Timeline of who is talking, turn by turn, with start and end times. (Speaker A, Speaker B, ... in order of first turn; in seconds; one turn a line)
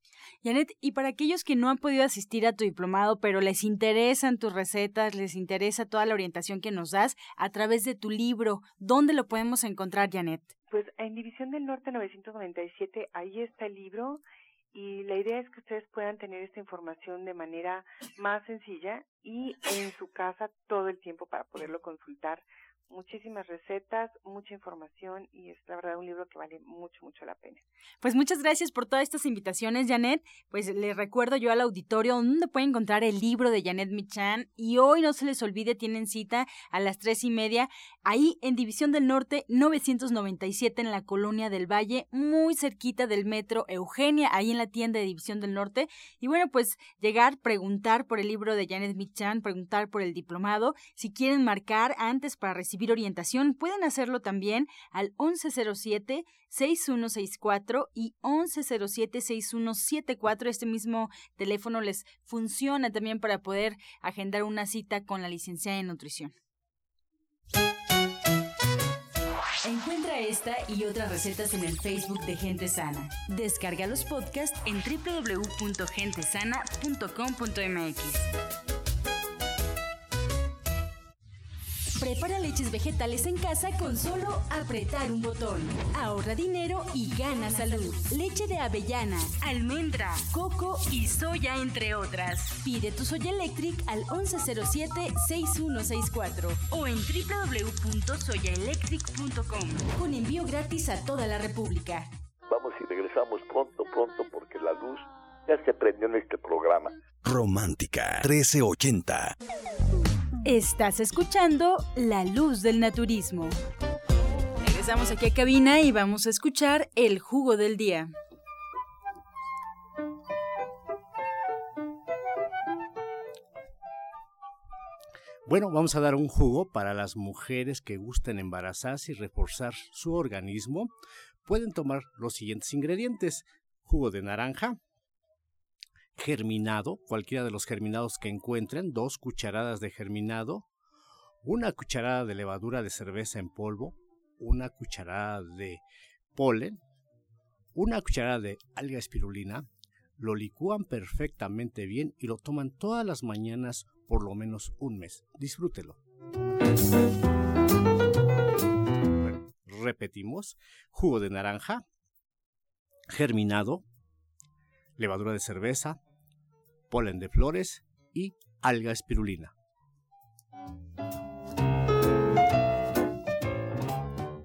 Speaker A: 0.4-10.5
Speaker B: 10.7-27.6
Speaker A: 28.0-66.3
Speaker A: 69.6-78.3
Speaker A: 82.0-102.1
Speaker C: 102.5-107.0
Speaker D: 107.2-109.3
Speaker A: 110.4-113.6
Speaker A: 114.6-118.1
Speaker E: 125.5-130.9
Speaker E: 131.4-134.8
Speaker E: 136.2-140.7
Speaker E: 141.4-145.8
Speaker E: 146.3-146.8
Speaker E: 147.7-149.7
Speaker E: 150.2-156.0
Speaker E: 159.2-161.8
Speaker E: 163.1-163.8
Speaker E: 165.0-166.0
Speaker E: 166.9-169.5